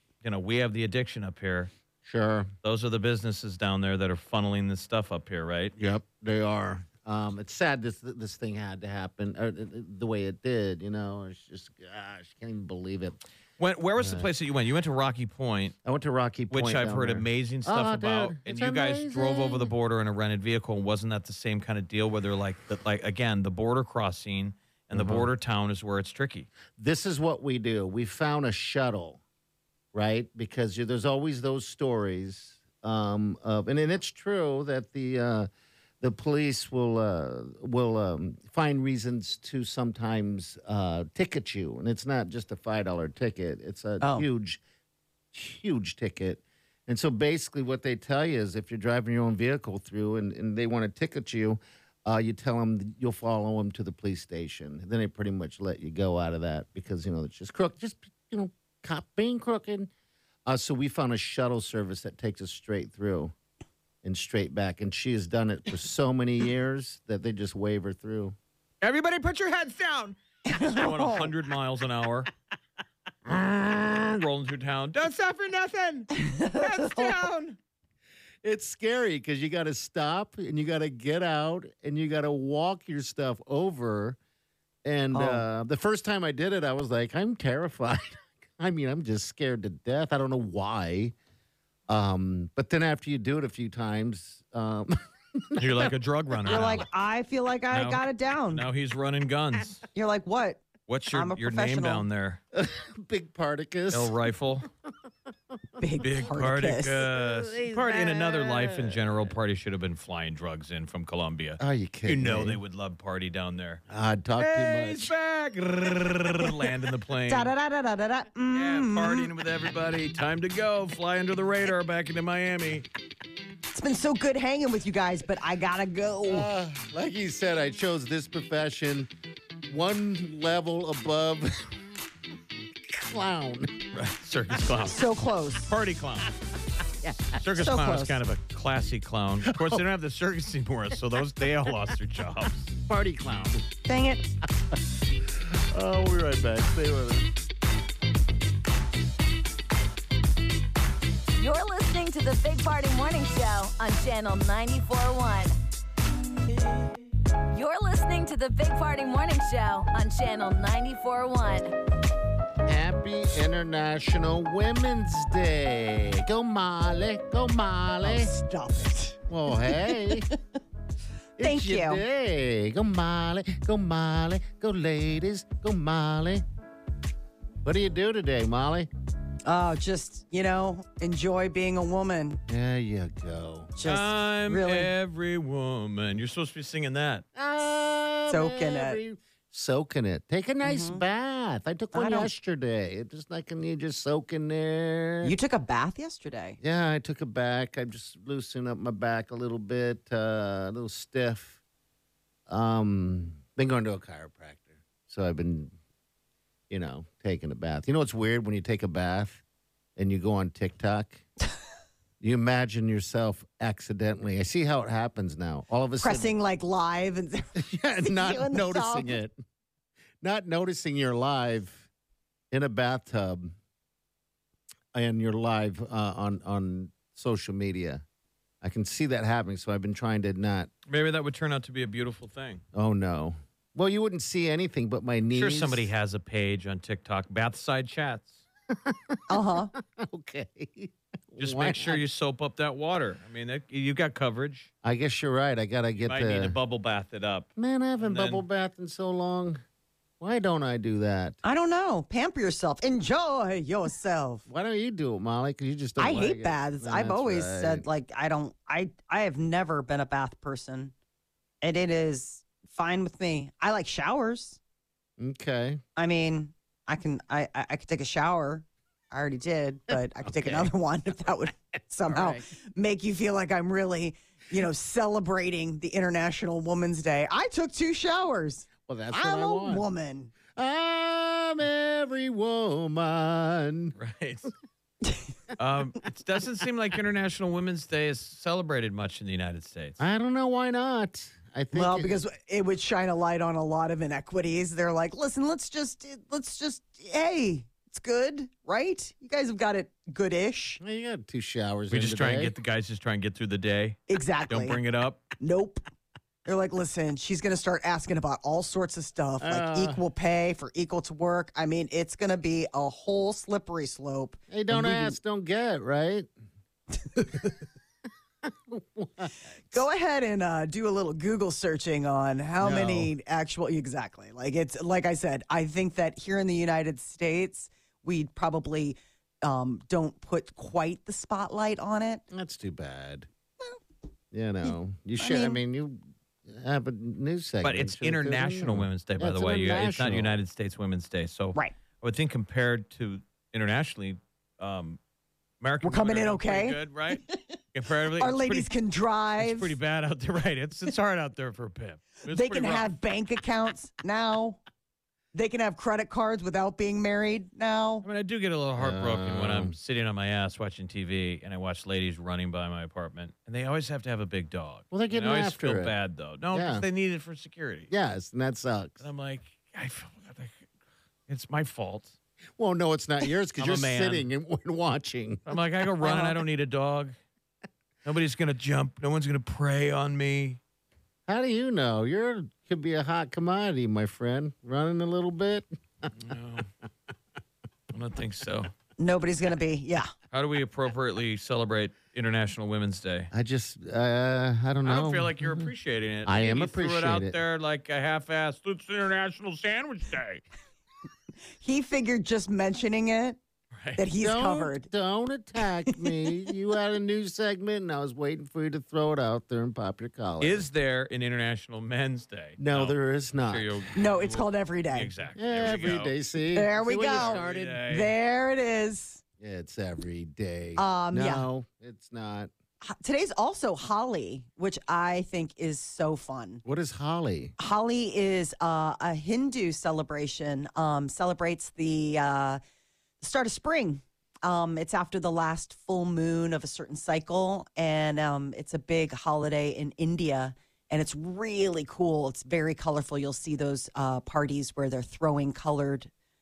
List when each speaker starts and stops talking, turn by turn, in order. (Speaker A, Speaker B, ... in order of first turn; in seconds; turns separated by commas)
Speaker A: 0.2-1.7, Speaker B: 2.0-2.5, Speaker A: 2.6-5.7, Speaker B: 5.8-13.2, Speaker A: 13.6-15.8, Speaker B: 14.0-14.3, Speaker B: 15.8-19.7, Speaker A: 16.5-26.5, Speaker B: 24.9-25.3, Speaker B: 26.8-29.2, Speaker B: 29.9-35.5, Speaker B: 36.0-44.6, Speaker C: 44.0-44.2, Speaker B: 45.3-59.9, Speaker B: 60.5-63.3, Speaker B: 64.0-68.3, Speaker A: 68.8-72.3, Speaker C: 70.5-71.3, Speaker B: 73.3-74.0, Speaker A: 73.3-77.5, Speaker C: 76.2-77.2, Speaker B: 78.4-84.2, Speaker B: 84.8-91.1, Speaker C: 85.1-85.5, Speaker B: 91.9-95.9, Speaker A: 95.6-96.8, Speaker B: 96.5-96.8, Speaker C: 96.5-98.6, Speaker A: 97.7-99.8, Speaker C: 99.9-102.0, Speaker A: 100.9-102.4, Speaker B: 102.5-104.1, Speaker A: 103.9-104.7, Speaker C: 105.8-107.0, Speaker A: 106.0-113.8, Speaker B: 107.0-109.2, Speaker B: 111.6-112.6, Speaker B: 113.9-115.1, Speaker A: 114.4-117.5, Speaker C: 117.3-119.3, Speaker A: 118.5-122.9, Speaker C: 123.7-126.5, Speaker B: 126.3-129.1, Speaker B: 129.7-131.5, Speaker B: 132.9-133.8, Speaker A: 133.9-135.1, Speaker C: 134.9-135.7, Speaker A: 135.7-136.3, Speaker B: 137.0-137.4, Speaker A: 137.4-142.7, Speaker C: 137.5-138.2, Speaker B: 139.4-139.8, Speaker B: 142.8-143.6, Speaker C: 143.8-144.2, Speaker B: 145.3-147.3, Speaker D: 151.4-155.5, Speaker D: 157.5-161.7, Speaker B: 162.6-168.3, Speaker C: 168.0-170.3, Speaker B: 169.3-170.3, Speaker B: 171.4-176.4, Speaker C: 171.4-172.0, Speaker B: 177.6-178.9, Speaker C: 179.4-182.4, Speaker B: 182.5-183.7, Speaker C: 183.8-184.9, Speaker A: 183.8-187.2, Speaker B: 187.3-195.3, Speaker C: 188.3-189.0, Speaker C: 190.6-191.0, Speaker C: 191.9-192.3, Speaker C: 195.2-196.6, Speaker B: 196.6-201.6, Speaker B: 202.5-205.7, Speaker B: 206.7-209.4, Speaker B: 209.9-211.2, Speaker B: 212.2-216.3, Speaker C: 216.0-219.1, Speaker B: 217.6-219.3, Speaker B: 220.2-221.9, Speaker B: 222.5-223.5, Speaker B: 224.9-228.0, Speaker B: 228.6-230.7, Speaker A: 230.9-232.6, Speaker B: 232.7-235.9, Speaker A: 235.3-238.4, Speaker B: 238.7-242.0, Speaker C: 239.3-239.7, Speaker A: 241.4-244.7, Speaker B: 244.8-246.6, Speaker A: 246.0-247.5, Speaker B: 247.6-249.6, Speaker A: 248.0-248.4, Speaker B: 250.2-251.4, Speaker C: 251.4-254.5, Speaker B: 254.5-257.9, Speaker C: 256.0-260.9, Speaker C: 261.6-264.6, Speaker B: 265.2-265.8, Speaker C: 265.9-280.3, Speaker B: 270.2-270.7, Speaker B: 272.0-272.5, Speaker B: 278.9-279.9, Speaker B: 280.5-283.9, Speaker A: 283.9-284.5, Speaker A: 285.6-290.0, Speaker B: 290.0-292.2, Speaker C: 291.7-300.8, Speaker B: 300.8-302.5, Speaker A: 301.9-305.2, Speaker C: 304.1-304.8, Speaker C: 305.4-305.8, Speaker C: 306.4-315.2, Speaker B: 309.4-310.0, Speaker B: 314.5-316.3, Speaker C: 317.1-317.5, Speaker B: 318.4-319.3, Speaker C: 319.7-332.2, Speaker B: 322.6-323.1, Speaker B: 332.3-333.3, Speaker B: 334.3-340.4, Speaker C: 334.6-335.6, Speaker A: 337.6-345.0, Speaker A: 345.6-348.7, Speaker C: 345.8-347.5, Speaker C: 348.2-349.7, Speaker A: 349.4-352.9, Speaker C: 352.3-354.6, Speaker C: 355.3-358.1, Speaker A: 358.0-367.9, Speaker B: 358.8-359.8, Speaker B: 364.9-365.9, Speaker B: 366.5-366.9, Speaker B: 367.9-369.0, Speaker A: 369.0-370.6, Speaker A: 371.3-372.1, Speaker B: 372.6-375.5, Speaker A: 373.6-374.2, Speaker A: 375.5-377.1, Speaker C: 376.0-376.4, Speaker A: 378.0-380.6, Speaker B: 381.3-386.1, Speaker A: 386.2-386.7, Speaker A: 387.9-388.7, Speaker C: 389.0-390.1, Speaker A: 390.3-393.3, Speaker B: 393.3-395.7, Speaker A: 394.8-400.4, Speaker B: 396.2-397.4, Speaker C: 401.6-403.4, Speaker A: 403.7-404.0, Speaker C: 403.9-404.9, Speaker B: 404.2-410.6, Speaker A: 410.4-416.1, Speaker B: 412.6-413.8, Speaker C: 413.9-415.1, Speaker B: 415.4-417.6, Speaker C: 416.5-419.2, Speaker A: 417.1-418.1, Speaker B: 419.4-422.5, Speaker C: 420.8-421.4, Speaker C: 422.8-426.6, Speaker B: 426.6-427.5, Speaker C: 427.6-432.6, Speaker C: 433.2-446.1